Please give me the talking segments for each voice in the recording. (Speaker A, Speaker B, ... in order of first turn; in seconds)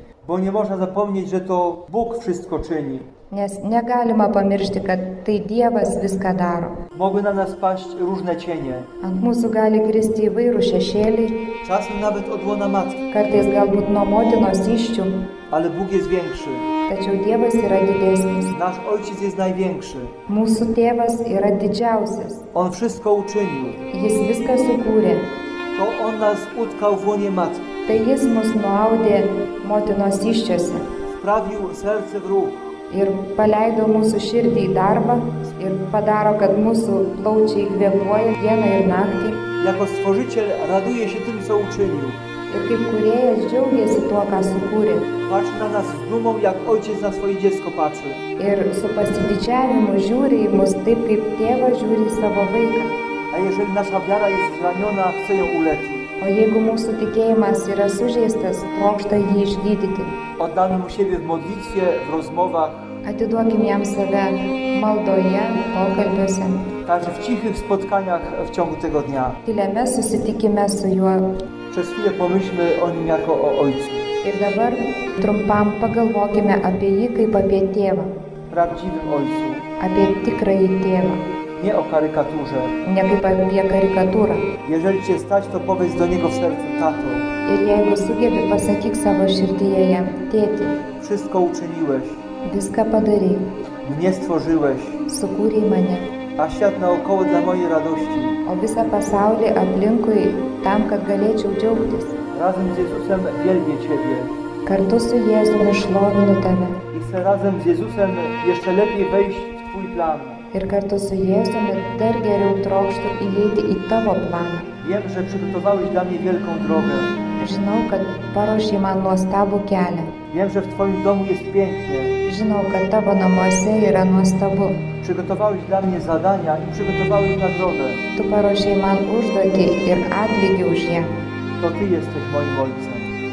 Speaker A: 0.2-3.1, 6.9-8.9, 11.6-13.0, 15.5-16.7, 18.5-20.2, 22.5-23.9, 25.8-27.7, 31.1-32.8, 39.6-42.2, 45.3-48.2, 53.3-56.1, 60.4-63.0, 66.9-69.4, 71.7-74.1, 78.5-79.7, 81.6-82.8, 84.7-87.3, 91.0-92.2, 93.8-95.0, 96.4-98.4, 102.3-104.3, 106.9-110.4, 114.8-117.1, 120.3-122.2, 125.0-128.0, 131.6-133.1
Speaker B: 3.3-6.8, 9.0-11.5, 13.1-15.3, 16.9-18.6, 20.3-22.4, 23.9-25.3, 27.9-30.9, 32.9-39.5, 42.5-45.1, 48.4-52.9, 56.2-60.2, 63.0-66.7, 69.5-71.4, 74.2-78.1, 79.8-81.2, 82.8-84.5, 87.5-90.8, 92.4-93.6, 95.1-96.1, 98.5-102.2, 104.7-106.8, 110.5-114.7, 117.4-120.2, 122.3-124.9, 128.2-131.1